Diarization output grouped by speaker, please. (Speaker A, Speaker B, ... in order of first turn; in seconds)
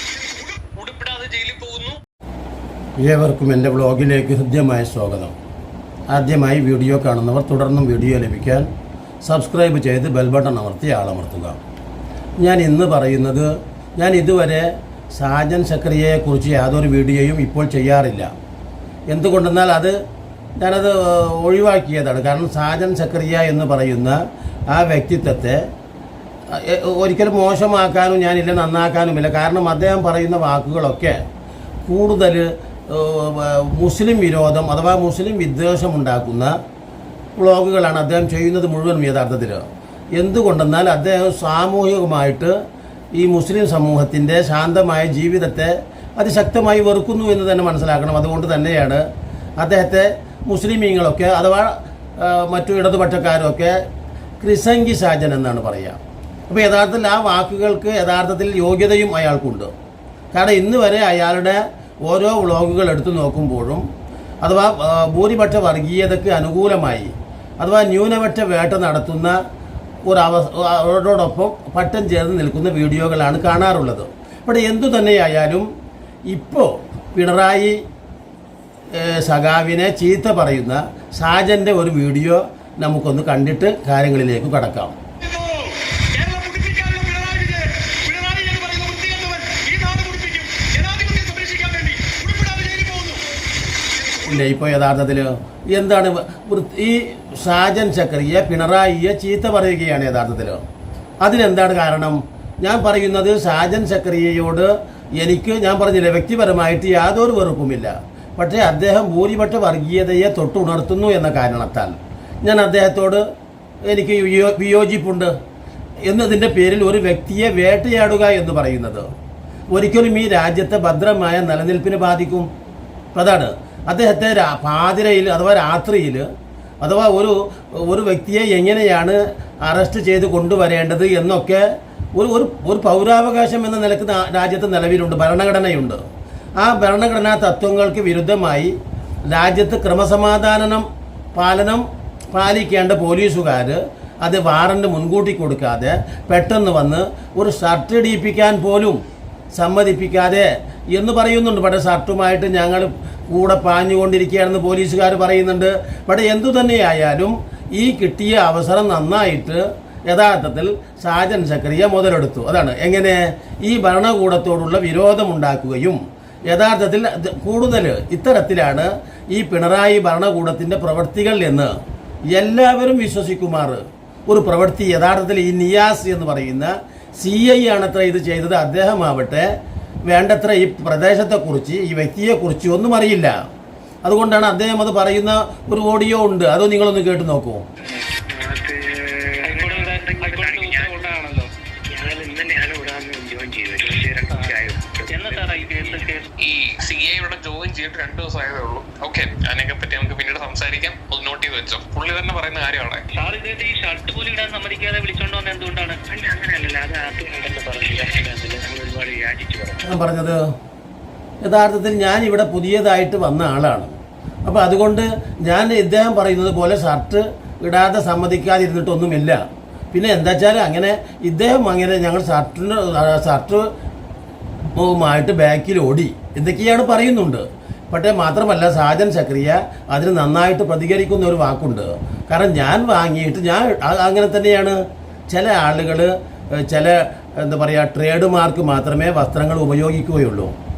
Speaker A: 0.3-2.0, 196.4-203.1
Speaker B: 3.0-5.3, 6.1-8.7, 9.3-11.6, 12.4-18.3, 19.1-19.9, 20.6-24.2, 24.7-25.6, 26.5-31.2, 31.9-36.5, 37.4-39.6, 40.2-42.5, 43.2-49.0, 49.6-53.7, 54.4-59.7, 60.3-63.8, 64.4-67.1, 67.6-69.4, 70.1-75.7, 76.3-77.8, 79.0-85.0, 94.2-100.6, 101.2-113.2, 113.9-115.3, 116.1-119.1, 119.7-122.5, 123.2-126.3, 126.8-131.6, 132.2-136.0, 136.6-138.7, 139.3-140.8, 141.3-149.0, 149.6-166.0, 166.5-171.7, 172.3-179.5, 180.1-183.3, 184.1-187.6, 209.8-210.4, 211.4-213.9, 214.4-219.4, 219.9-223.7, 224.8-234.8, 235.3-240.5
Speaker C: 85.2-93.2
Speaker D: 187.9-191.2, 191.9-196.2, 206.1-209.8
Speaker E: 189.4-191.2, 195.2-196.2, 203.2-205.9